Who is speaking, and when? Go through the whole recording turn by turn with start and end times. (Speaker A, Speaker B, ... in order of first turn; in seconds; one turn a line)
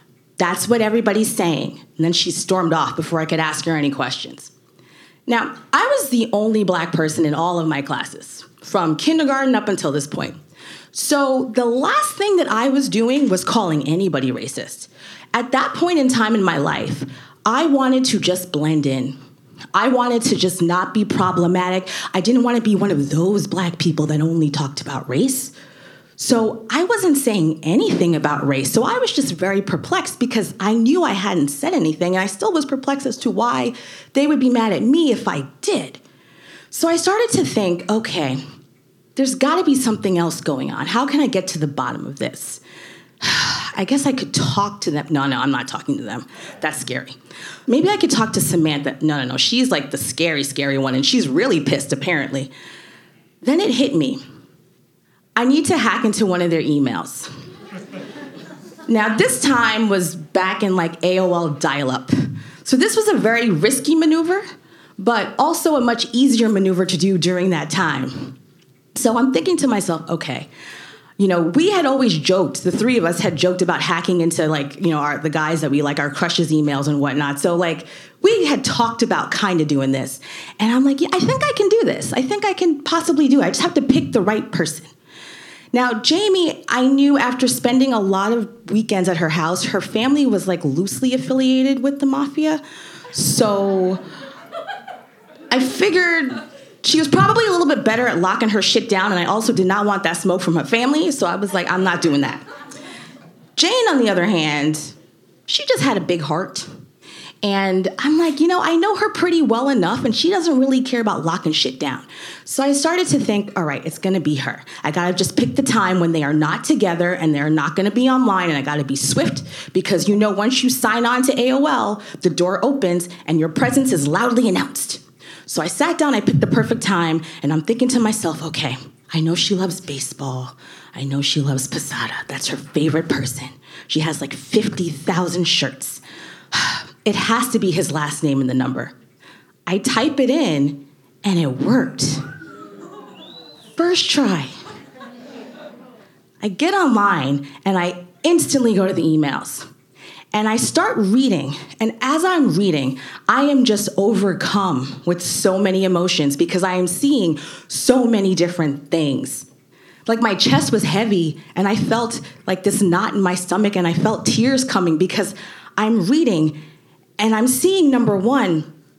Speaker A: 0.4-4.5
Speaker A: 5.3-10.4
Speaker A: 10.9-19.1
Speaker A: 19.7-25.5
Speaker A: 26.2-36.0
Speaker A: 36.7-38.4
Speaker A: 39.2-42.6
Speaker A: 43.2-47.1
Speaker A: 47.7-52.5
Speaker A: 53.4-54.2
Speaker A: 55.4-57.3
Speaker A: 58.9-62.1
Speaker A: 62.6-64.5
Speaker A: 65.0-68.4
Speaker A: 69.0-70.5
Speaker A: 71.2-84.9
Speaker A: 85.7-92.6
Speaker A: 93.1-94.0
Speaker A: 95.5-102.4
Speaker A: 103.6-104.9
Speaker A: 105.5-106.7
Speaker A: 107.4-136.0
Speaker A: 136.5-138.9
Speaker A: 139.7-142.2
Speaker A: 143.8-144.5
Speaker A: 146.4-149.7
Speaker A: 150.3-159.4
Speaker A: 160.1-166.6
Speaker A: 167.2-168.7